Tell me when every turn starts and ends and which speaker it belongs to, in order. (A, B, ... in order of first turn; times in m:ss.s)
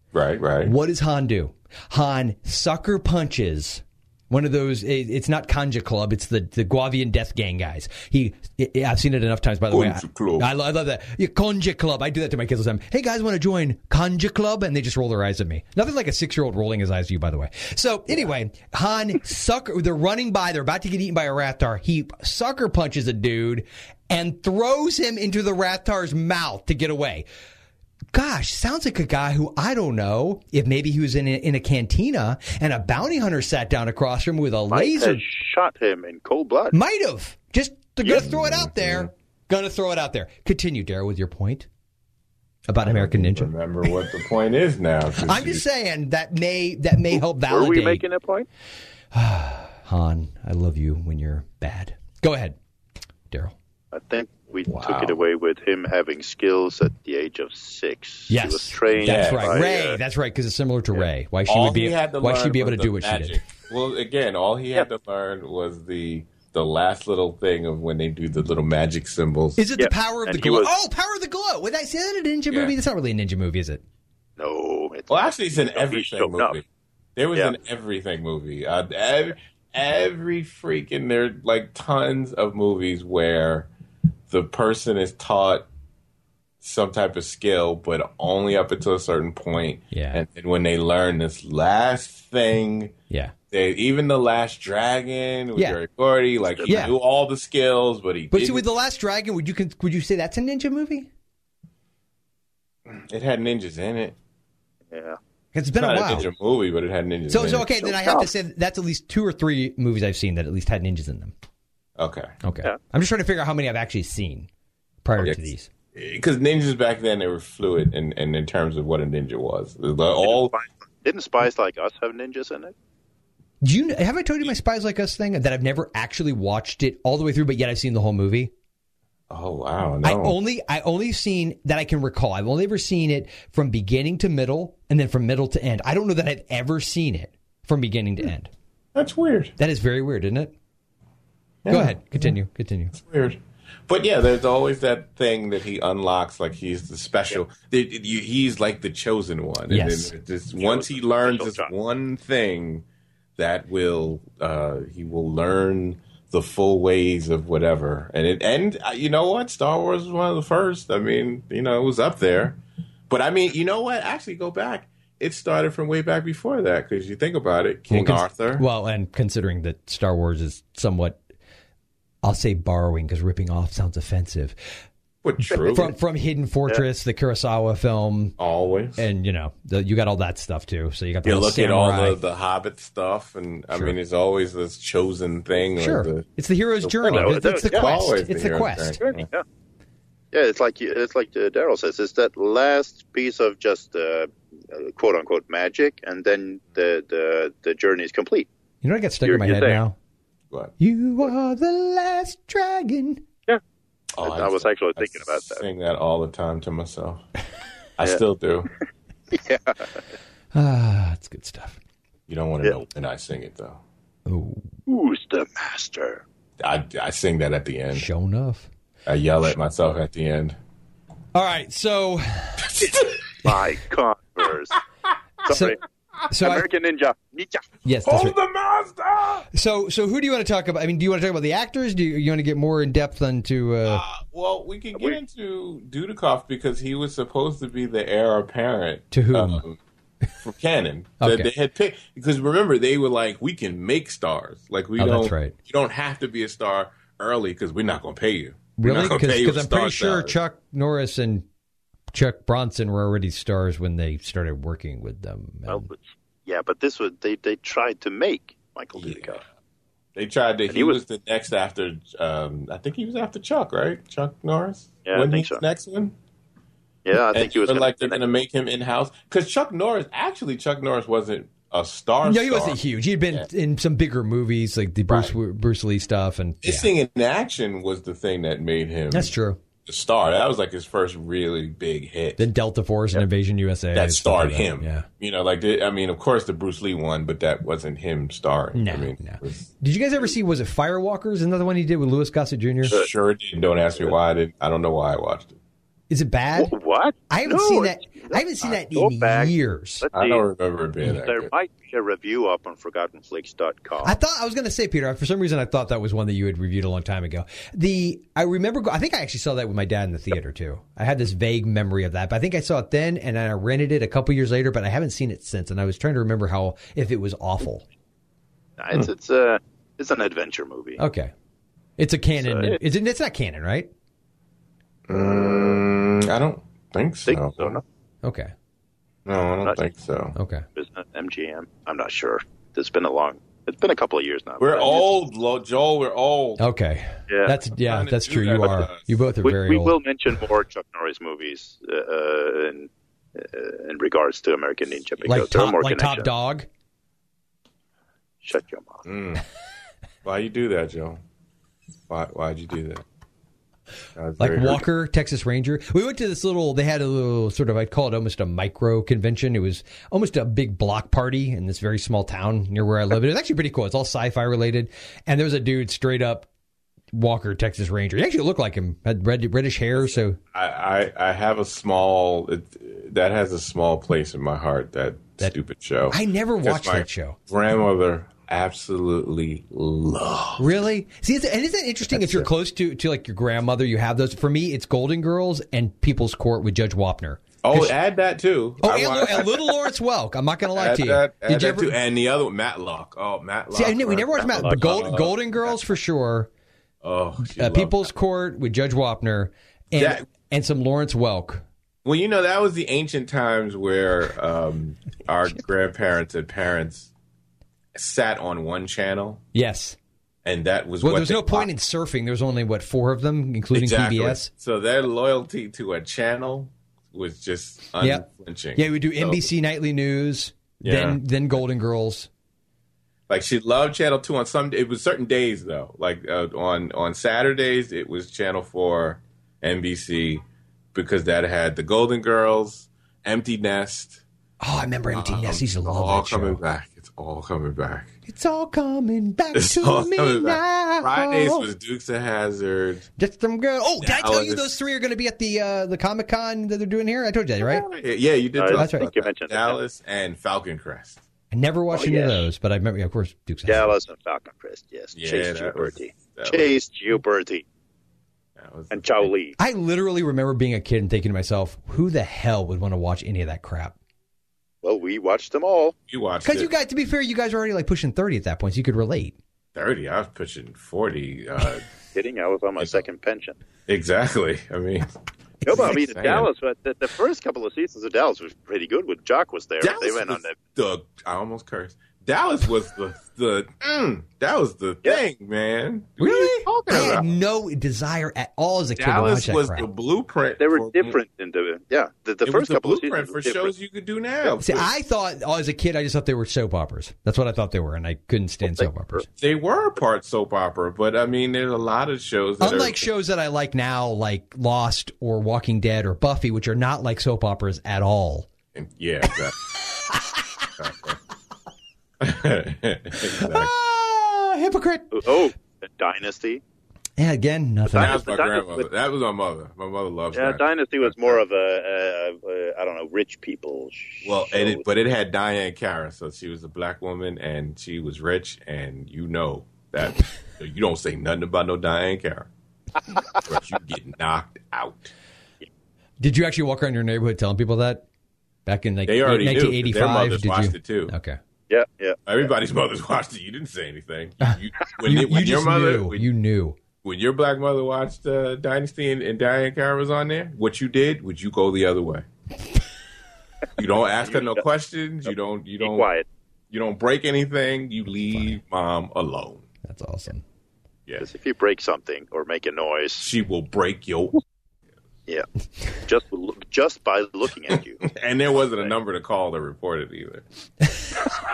0:00.1-0:00.7 A
0:00.6-0:27.2 B
0:09.7-0:10.4 A
0:28.1-0:35.2 B
0:34.7-0:36.7 C
0:36.7-0:41.7 B
0:38.1-0:39.1 A
0:42.7-0:43.5 B
0:42.8-0:45.6 A
0:45.2-0:48.0 B
0:47.5-0:48.5 C
0:49.1-0:52.6 B
0:53.9-1:00.0 C
0:54.7-0:55.2 A
0:58.3-1:03.4 B
0:59.0-0:59.5 A
1:01.5-1:09.6 A
1:09.6-1:13.8 B
1:09.8-1:10.7 C
1:14.4-1:16.6 C
1:15.1-1:16.6 A
1:17.2-1:23.7 A
1:24.3-1:25.7 A
1:26.6-1:32.9 A
1:29.9-1:30.2 B
1:33.5-1:38.6 A
1:36.5-1:36.9 C
1:36.7-1:36.9 B
1:38.3-1:41.1 B
1:42.9-1:44.2 A
1:44.9-1:45.2 C
1:45.5-1:46.3 B
1:45.8-1:47.7 A
1:47.3-1:51.3 B
1:47.8-1:48.3 C
1:52.0-1:52.3 A
1:52.4-1:54.5 B
1:55.0-1:55.7 B
1:55.2-2:00.5 A
2:00.2-2:02.7 C
2:03.6-2:08.5 B
2:09.3-2:10.4 A
2:10.0-2:18.5 B
2:18.9-2:19.5 A
2:19.6-2:20.5 B
2:21.6-2:22.3 A
2:21.7-2:23.0 B
2:22.9-2:32.8 A
2:29.7-2:30.1 B
2:30.5-2:31.7 C
2:33.4-2:48.6 A
2:47.9-2:51.2 B
2:52.2-2:54.7 B
2:55.2-2:55.9 A
2:55.5-2:55.9 C
2:55.7-2:58.4 B
2:58.4-2:59.0 A
2:59.0-3:02.2 B
3:01.2-3:06.2 A
3:05.8-3:09.0 B
3:06.8-3:09.3 A
3:07.1-3:07.9 C
3:09.0-3:09.4 C
3:10.3-3:18.5 C
3:18.8-3:20.0 B
3:19.2-3:19.8 C
3:20.8-3:23.2 B
3:24.2-3:27.2 A
3:24.2-3:25.6 C
3:28.0-3:28.7 A
3:29.3-3:30.0 C
3:30.5-3:31.8 B
3:32.3-3:33.8 A
3:34.3-3:34.6 B
3:34.9-3:36.2 C
3:36.6-3:38.1 A
3:37.9-3:38.7 B
3:39.0-3:40.6 A
3:41.3-3:42.9 B
3:42.6-3:43.2 A
3:43.4-3:44.8 C
3:45.4-3:45.8 C
3:45.5-3:45.8 B
3:46.3-3:46.6 B
3:46.4-3:47.6 C
3:47.8-3:48.4 B
3:48.0-3:49.5 A
3:49.5-3:54.0 B
3:53.8-3:59.8 A
3:59.1-3:59.6 B
4:00.4-4:10.4 A
4:01.2-4:01.5 B
4:05.0-4:05.5 B
4:08.8-4:11.4 B
4:12.1-4:15.9 B
4:15.7-4:19.4 C
4:19.0-4:19.2 A
4:20.2-4:26.1 A
4:20.7-4:21.0 C
4:25.0-4:25.6 C
4:27.0-4:28.2 C
4:27.3-4:32.8 A
4:32.2-4:36.9 B
4:35.1-4:35.3 A
4:36.6-4:39.3 A
4:39.1-4:39.6 B
4:39.8-4:42.4 A
4:42.4-4:45.0 B
4:43.9-4:49.7 A
4:48.7-4:53.0 B
4:52.8-4:55.5 A
4:56.1-4:56.7 B
4:56.6-5:00.4 C
4:57.3-5:00.0 B
5:00.1-5:01.5 A
5:01.0-5:04.2 C
5:04.0-5:17.8 B
5:18.8-5:21.0 C
5:21.0-5:21.3 B
5:22.0-5:23.9 B
5:22.4-5:22.8 C
5:25.1-5:27.8 A
5:25.1-5:25.8 C
5:27.3-5:27.8 C
5:28.2-5:28.5 B
5:29.2-5:30.3 A
5:30.3-5:30.6 B
5:30.8-5:35.1 C
5:34.6-5:36.6 A
5:36.6-5:40.0 B
5:37.3-5:37.6 C
5:37.7-5:39.1 A
5:39.4-5:46.3 C
5:45.2-5:46.7 B
5:48.4-5:49.0 C
5:49.0-5:49.4 A
5:50.2-5:51.2 A
5:52.1-5:53.0 A
5:54.2-5:54.8 A
5:54.4-6:06.5 B
6:07.1-6:10.4 B
6:10.0-6:20.8 A
6:16.1-6:17.4 B
6:20.6-6:27.9 B
6:22.1-6:22.5 A
6:27.6-6:29.7 A
6:28.8-6:31.9 B
6:30.8-6:35.7 A
6:33.7-6:36.5 B
6:34.4-6:35.3 C
6:37.0-6:38.1 A
6:37.4-6:41.6 B
6:39.9-6:40.2 A
6:42.0-6:47.1 A
6:47.9-6:49.4 A
6:49.5-6:50.0 B
6:50.4-6:51.7 A
6:51.0-6:54.5 B
6:53.7-6:59.5 A
6:58.0-7:02.3 B
7:00.8-7:01.2 A
7:03.3-7:14.2 A
7:14.6-7:16.6 B
7:15.1-7:18.1 A
7:18.3-7:21.7 B
7:19.5-7:23.1 A
7:23.2-7:27.8 B
7:24.0-7:24.7 A
7:27.6-7:31.2 A
7:28.6-7:29.8 C
7:28.7-7:29.1 B
7:31.5-7:34.0 B
7:31.9-7:32.5 C
7:33.7-7:37.6 C
7:35.1-7:36.7 A
7:38.6-7:39.3 A
7:38.9-7:39.6 C
7:39.6-7:43.9 B
7:44.8-7:45.9 C
7:46.1-7:46.7 A
7:46.4-7:49.3 B
7:49.7-7:51.9 A
7:52.1-7:53.6 C
7:53.9-7:55.1 A
7:55.6-7:56.5 A
7:55.6-8:00.6 C
7:59.8-8:07.3 A
8:06.2-8:09.9 B
8:09.0-8:11.2 A
8:10.6-8:13.7 C
8:12.4-8:14.9 A
8:14.6-8:19.2 B
8:18.6-8:19.2 C
8:19.4-8:23.1 A
8:22.6-8:28.5 B
8:28.7-8:29.6 A
8:30.8-8:31.2 A
8:32.2-8:33.7 A
8:33.2-8:35.2 B
8:35.1-8:36.6 C
8:37.2-8:38.2 B
8:37.9-8:38.9 C
8:37.9-8:41.4 A
8:40.3-8:44.8 C
8:44.2-8:52.5 A
8:53.4-8:55.1 A
8:56.2-8:58.0 B
8:58.6-9:01.4 B
8:59.0-9:01.1 A
9:01.7-9:02.2 C
9:02.2-9:06.3 A
9:04.4-9:06.8 B
9:07.0-9:12.2 A
9:13.8-9:16.1 A
9:14.2-9:14.6 C
9:15.8-9:16.2 C
9:16.7-9:19.6 A
9:18.3-9:18.6 B
9:19.8-9:20.4 B
9:21.2-9:23.2 C
9:23.2-9:24.4 A
9:26.0-9:28.0 C
9:28.0-9:30.4 A